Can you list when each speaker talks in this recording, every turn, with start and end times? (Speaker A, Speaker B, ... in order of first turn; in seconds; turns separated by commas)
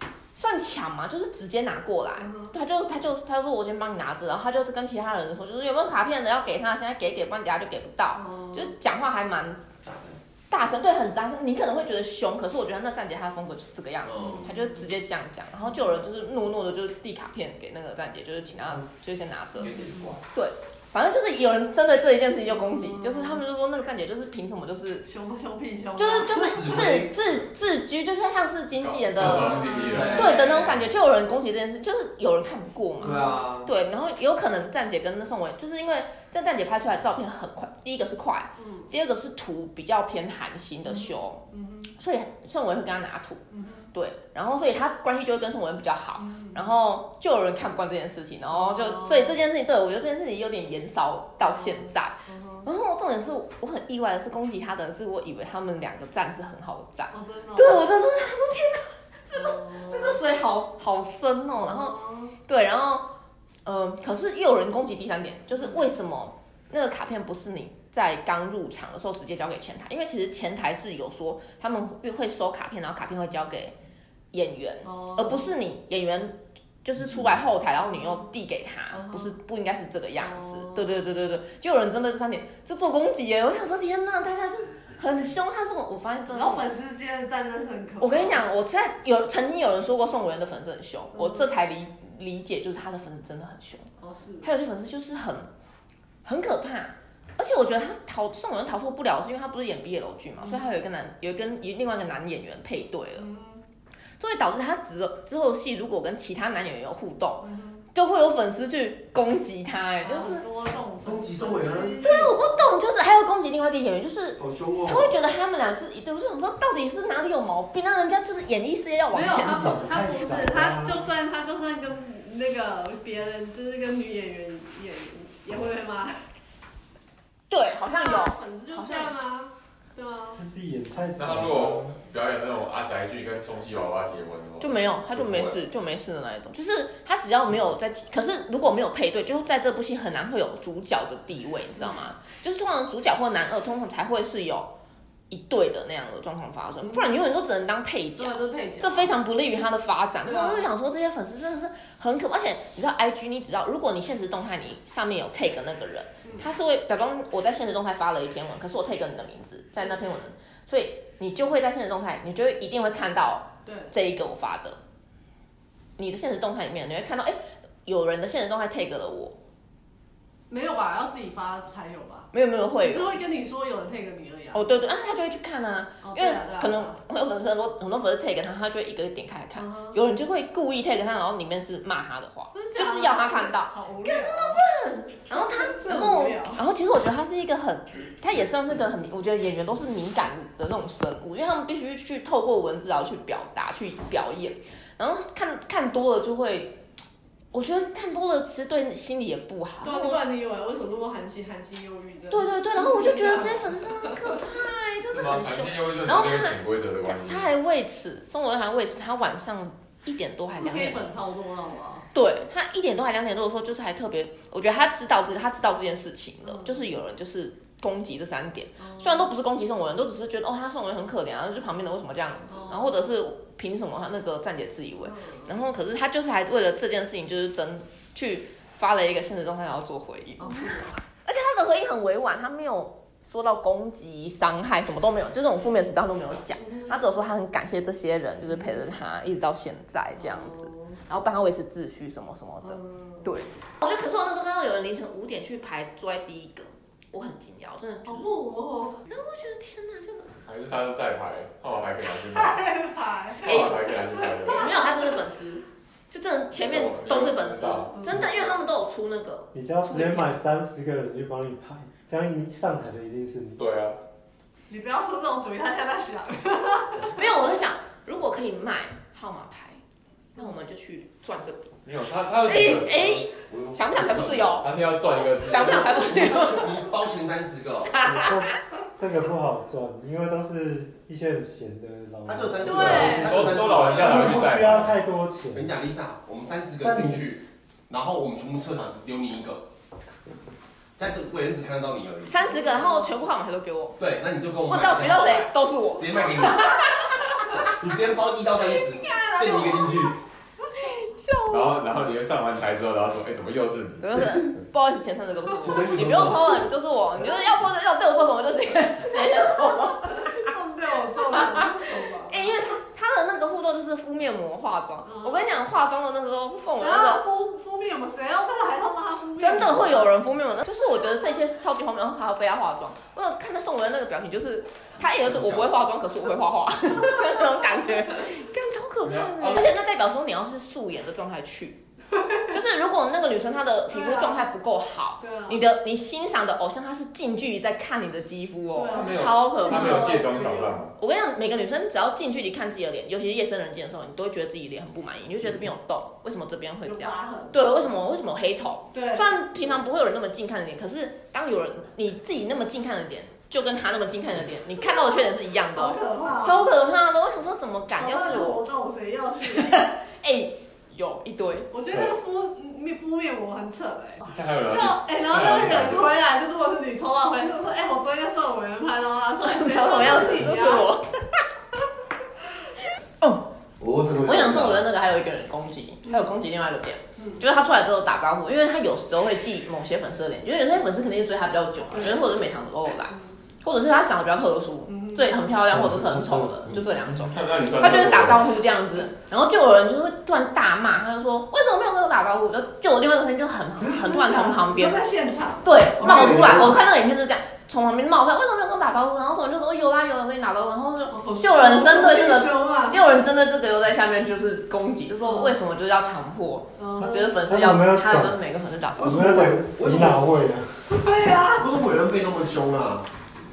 Speaker A: 0.3-9.7, Speaker B: 2.2-2.5, Speaker B: 8.2-8.7, Speaker C: 9.8-10.2, Speaker A: 10.5-19.7, Speaker C: 14.1-14.5, Speaker C: 19.6-20.2, Speaker B: 19.6-20.1, Speaker A: 20.3-25.1, Speaker B: 22.7-23.4, Speaker B: 25.0-26.9, Speaker A: 26.0-43.4, Speaker C: 26.3-27.4, Speaker D: 28.8-30.2, Speaker C: 29.2-30.9, Speaker B: 29.3-30.4, Speaker C: 33.0-33.7, Speaker B: 33.0-33.4, Speaker B: 38.6-38.9, Speaker B: 40.9-41.9, Speaker B: 43.5-43.9, Speaker A: 43.9-63.1, Speaker B: 46.2-46.6, Speaker B: 48.6-49.4, Speaker B: 52.3-52.7, Speaker B: 57.1-57.9, Speaker B: 59.4-60.2, Speaker B: 61.6-62.3, Speaker A: 63.6-73.8, Speaker A: 74.3-86.7, Speaker B: 74.8-75.5, Speaker B: 78.9-79.3, Speaker B: 80.2-80.9, Speaker B: 86.3-88.4, Speaker A: 88.0-93.9, Speaker B: 91.2-91.4, Speaker B: 94.0-94.5, Speaker A: 94.4-95.5, Speaker A: 96.2-103.3, Speaker B: 100.4-100.7, Speaker B: 103.2-103.6, Speaker A: 104.2-110.5, Speaker B: 107.4-107.8, Speaker B: 110.0-112.6, Speaker C: 111.0-112.0, Speaker A: 112.0-119.8, Speaker C: 114.4-115.1, Speaker B: 119.1-126.2, Speaker E: 119.4-121.0, Speaker A: 127.5-129.1, Speaker B: 127.8-130.4, Speaker E: 130.4-131.9, Speaker D: 131.2-135.6, Speaker A: 134.6-144.7, Speaker A: 145.3-164.8, Speaker B: 146.9-147.2, Speaker B: 148.2-149.1, Speaker B: 150.2-150.7, Speaker B: 163.7-163.9, Speaker A: 166.0-169.4, Speaker B: 170.5-174.7, Speaker A: 172.3-173.1, Speaker A: 174.5-196.8, Speaker B: 176.0-177.0, Speaker B: 179.6-180.0, Speaker B: 182.5-184.7, Speaker B: 185.3-186.6, Speaker A: 197.5-200.2, Speaker B: 199.8-204.4, Speaker A: 202.3-211.1, Speaker D: 205.1-207.5, Speaker B: 210.6-212.1, Speaker A: 212.1-248.3, Speaker B: 216.5-216.7, Speaker B: 218.8-219.3, Speaker B: 222.5-223.0, Speaker B: 225.1-225.5, Speaker B: 230.4-230.8, Speaker B: 240.2-241.0, Speaker B: 242.6-243.2, Speaker B: 248.1-249.0, Speaker A: 249.1-250.3, Speaker D: 250.4-252.6, Speaker B: 252.1-255.1, Speaker D: 253.4-254.7, Speaker A: 253.4-253.8, Speaker A: 254.5-260.3, Speaker D: 256.6-258.1, Speaker B: 258.0-258.3, Speaker E: 259.5-263.6, Speaker D: 263.6-264.0, Speaker B: 264.7-267.1, Speaker A: 267.1-269.8, Speaker A: 270.4-271.8, Speaker D: 271.9-273.2, Speaker A: 272.4-274.7, Speaker C: 272.6-274.6, Speaker D: 274.6-276.1, Speaker A: 275.4-276.9, Speaker C: 275.7-278.0, Speaker A: 277.9-278.5, Speaker E: 278.0-283.2, Speaker C: 282.3-284.6, Speaker B: 282.6-283.4, Speaker D: 282.9-285.0, Speaker E: 284.0-285.8, Speaker C: 285.5-289.6, Speaker E: 286.8-287.2, Speaker C: 291.0-292.4, Speaker A: 292.3-294.0, Speaker B: 292.4-293.3, Speaker C: 294.0-296.8, Speaker A: 294.7-297.6, Speaker C: 297.7-300.1, Speaker A: 298.7-300.2, Speaker A: 300.8-301.8, Speaker D: 301.5-304.4, Speaker A: 304.0-310.5, Speaker C: 305.6-306.7, Speaker B: 309.9-312.6, Speaker A: 312.3-317.2, Speaker B: 315.1-315.5, Speaker B: 316.8-320.1, Speaker A: 319.4-331.8, Speaker C: 325.0-325.7, Speaker D: 329.1-329.7, Speaker A: 332.5-340.1, Speaker B: 333.9-334.5, Speaker B: 335.2-335.6, Speaker B: 338.7-340.8, Speaker D: 338.9-340.9, Speaker A: 341.0-358.6, Speaker B: 346.8-347.9, Speaker B: 348.9-349.3, Speaker B: 355.7-356.7, Speaker B: 357.9-359.9, Speaker A: 359.4-361.7, Speaker B: 361.7-370.9, Speaker D: 364.3-366.1, Speaker A: 369.4-371.1, Speaker C: 373.8-374.8, Speaker A: 374.2-395.0, Speaker B: 381.9-382.4, Speaker B: 384.9-385.4, Speaker C: 385.6-386.9, Speaker D: 387.0-388.5, Speaker B: 393.9-396.7, Speaker A: 395.6-409.1, Speaker C: 396.0-396.8, Speaker B: 401.1-403.1, Speaker B: 405.2-405.6, Speaker B: 406.8-407.3, Speaker E: 407.0-408.4, Speaker C: 409.0-410.2, Speaker E: 409.0-410.8, Speaker B: 410.9-411.7, Speaker C: 411.6-413.1